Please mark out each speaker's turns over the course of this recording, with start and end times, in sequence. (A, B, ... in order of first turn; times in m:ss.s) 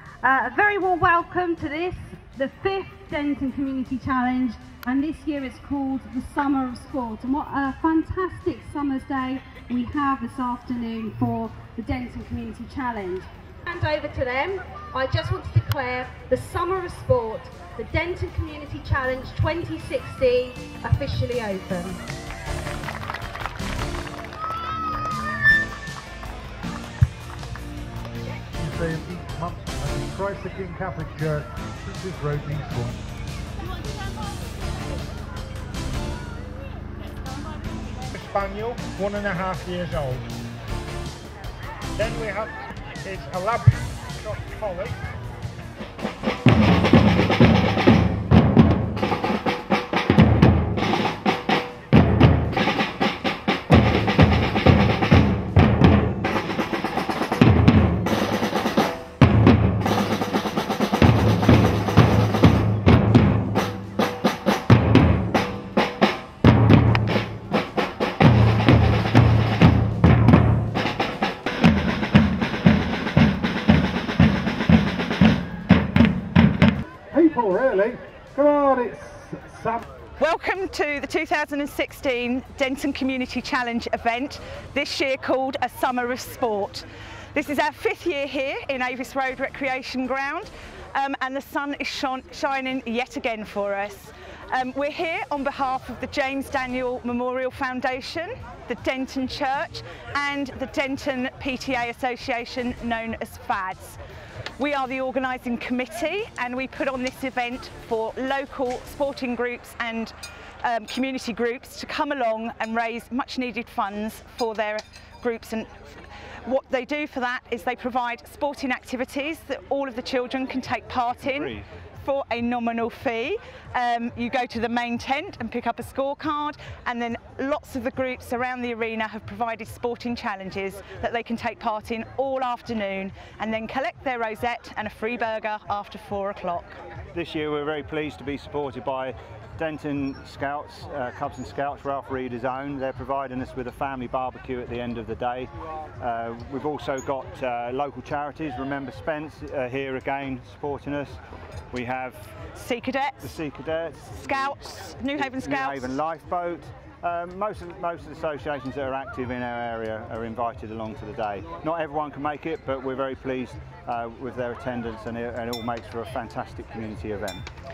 0:00.2-0:22.0 A
0:28.5-0:33.0 B
0:38.1-0:40.3 C
0:42.0-0:45.0 C
1:17.1-1:19.8 B
1:20.2-1:44.0 D
1:44.6-2:16.8 D
2:01.2-2:01.6 E
2:17.1-2:31.2 E
2:31.7-2:32.4 E
2:32.5-2:33.2 D
2:33.2-2:47.4 E
2:34.8-2:36.0 D